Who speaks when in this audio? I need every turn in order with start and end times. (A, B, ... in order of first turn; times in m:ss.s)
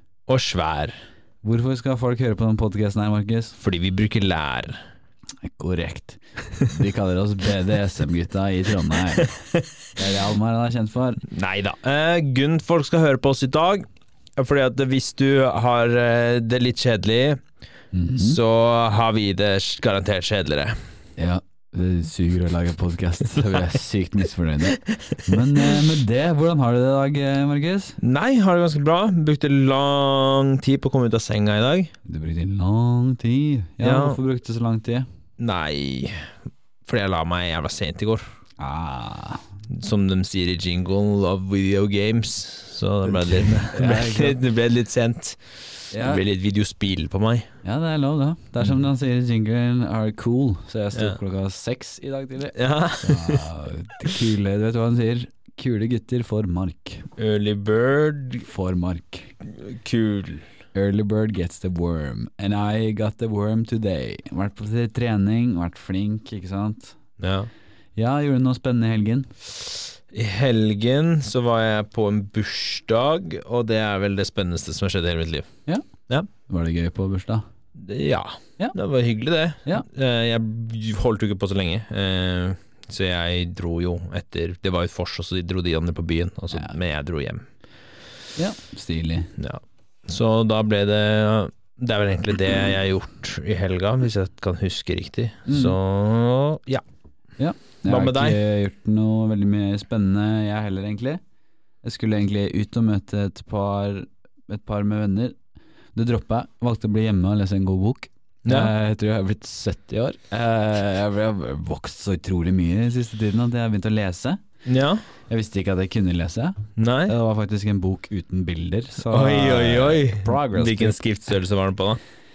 0:00.3-0:01.0 A
0:01.4-0:03.6 B
0:03.6-0:04.8 A
0:05.4-0:09.3 B
0:09.9-0:11.2 B
0:11.3-0:17.4 A
0:17.9-0:18.4 B
0:18.2-0:20.8 A
0:21.2-0:28.0 B
0:28.0-0:31.9 A
0:32.0-0:35.1 B
0:33.8-0:34.2 A
0:35.4-0:36.3 A
0:36.8-0:38.2 A
0:38.6-0:39.4 B
0:39.7-0:47.5 A
0:43.1-0:44.4 B
0:45.9-0:46.2 B
0:47.6-0:57.1 B
0:52.6-0:53.4 A
0:57.2-0:58.5 A
0:58.4-0:59.4 B
0:59.5-1:00.5 A
1:00.7-1:07.0 B
1:07.2-1:07.5 A
1:08.0-1:09.4 B
1:10.1-1:15.5 A
1:16.5-1:17.4 B
1:17.8-1:27.5 A
1:28.4-1:29.3 B
1:29.4-1:36.8 A
1:35.5-1:35.8 B
1:37.4-1:41.2 B
1:37.9-1:38.4 A
1:41.8-1:45.4 B
1:46.0-1:54.4 B
1:48.4-1:48.7 A
1:54.7-1:55.0 A
1:55.3-2:01.0 B
1:56.8-1:57.1 A
1:59.1-2:02.0 A